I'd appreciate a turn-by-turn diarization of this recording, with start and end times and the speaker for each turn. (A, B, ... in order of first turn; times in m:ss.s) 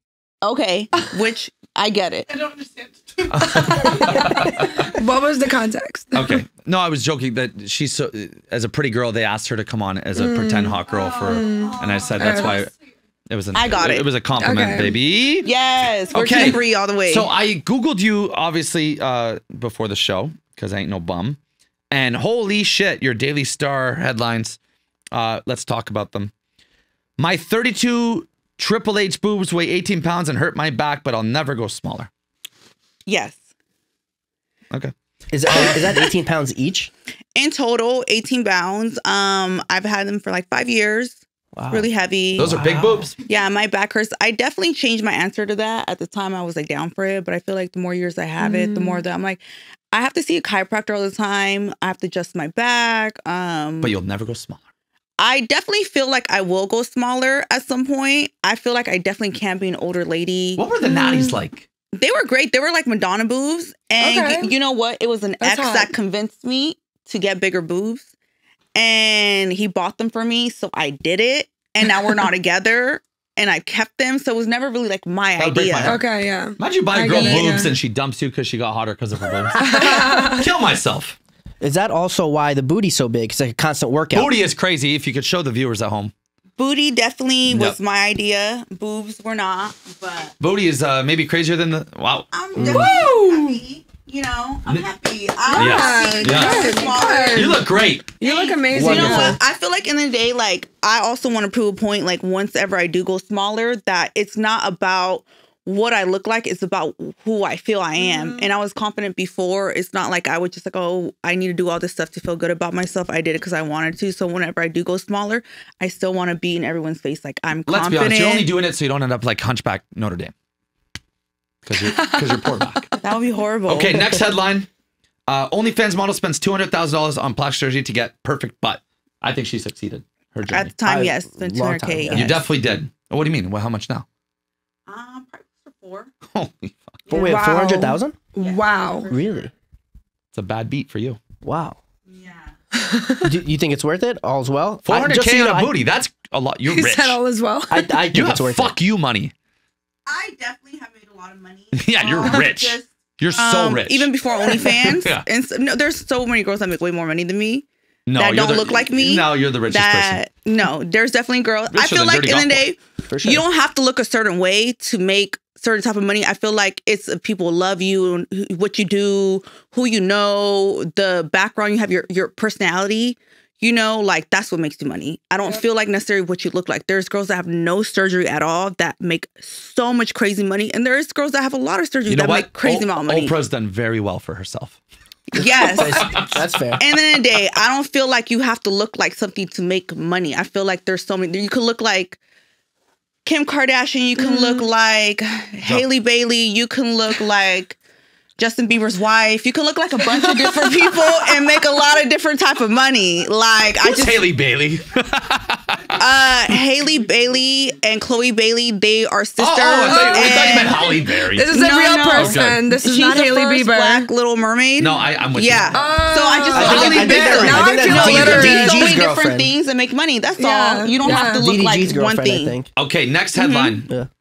0:00.4-0:02.4 A
0:03.2-0:04.9 B
0:03.8-0:06.4 C
0:06.1-0:12.7 B
0:10.2-0:12.6 C
0:13.3-0:15.5 B
0:13.5-0:14.1 A
0:14.4-0:15.0 C
0:15.4-0:17.3 A
0:16.1-0:21.4 B
0:21.9-0:24.6 B
0:25.1-0:26.3 B
0:27.2-0:32.1 B
0:33.1-0:33.4 A
0:35.3-0:36.9 D
0:35.4-0:36.0 B
0:37.3-0:42.6 A
0:41.5-0:41.9 D
0:42.4-0:43.1 B
0:42.5-0:43.1 D
0:43.2-0:49.4 A
0:48.4-0:49.0 C
0:49.9-0:53.9 A
0:53.8-0:54.6 B
0:55.2-1:00.6 A
1:00.6-1:01.6 B
1:00.8-1:01.3 C
1:01.9-1:08.1 A
1:04.0-1:04.5 C
1:05.4-1:05.9 C
1:08.7-1:16.0 A
1:15.4-1:21.2 B
1:15.8-1:17.7 C
1:17.1-1:17.7 A
1:19.6-1:20.4 C
1:21.6-1:24.3 D
1:24.1-1:26.1 B
1:26.6-1:30.3 A
1:27.5-1:27.8 B
1:30.4-1:33.1 B
1:32.3-1:37.6 A
1:32.5-1:33.3 D
1:32.8-1:33.2 C
1:35.5-1:37.6 C
1:35.5-1:38.1 B
1:38.2-1:39.4 C
1:38.2-1:58.5 A
1:38.7-1:39.4 D
1:48.0-1:48.5 C
1:57.7-2:00.3 B
2:01.6-2:02.9 B
2:01.8-2:02.8 C
2:03.0-2:04.1 A
2:03.7-2:04.7 B
2:05.3-2:10.7 B
2:10.5-2:12.4 A
2:10.8-2:12.4 D
2:12.1-2:14.0 B
2:14.9-2:16.1 A
2:16.3-2:17.0 B
2:17.1-2:18.2 D
2:17.1-2:19.1 C
2:18.4-2:19.3 A
2:19.1-2:19.5 D
2:20.3-2:21.2 B
2:21.4-2:21.8 D
2:22.1-2:22.5 A
2:22.8-2:23.3 C
2:23.2-2:25.7 D
2:24.8-2:27.2 B
2:26.7-2:27.9 C
2:27.7-2:28.8 D
2:28.1-2:29.3 B
2:30.1-3:03.3 A
2:31.7-2:34.1 B
2:34.8-2:35.2 B
2:38.0-2:40.2 B
2:41.7-2:42.6 B
2:43.1-2:43.4 D
3:02.1-3:04.8 B
3:05.3-3:06.2 A
3:05.3-3:06.8 D
3:06.0-3:06.4 B
3:06.8-3:12.2 A
3:13.2-3:17.8 A
3:14.2-3:14.7 C
3:18.4-3:24.2 A
3:23.8-3:26.0 B
3:26.0-3:30.9 A
3:29.4-3:32.6 B
3:29.8-3:34.1 C
3:31.5-3:42.6 A
3:34.8-3:35.8 B
3:35.7-3:38.9 C
3:36.5-3:38.8 B
3:36.5-3:39.5 D
3:40.4-3:41.5 C
3:41.4-3:42.7 D
3:42.7-3:43.9 B
3:43.4-3:43.8 A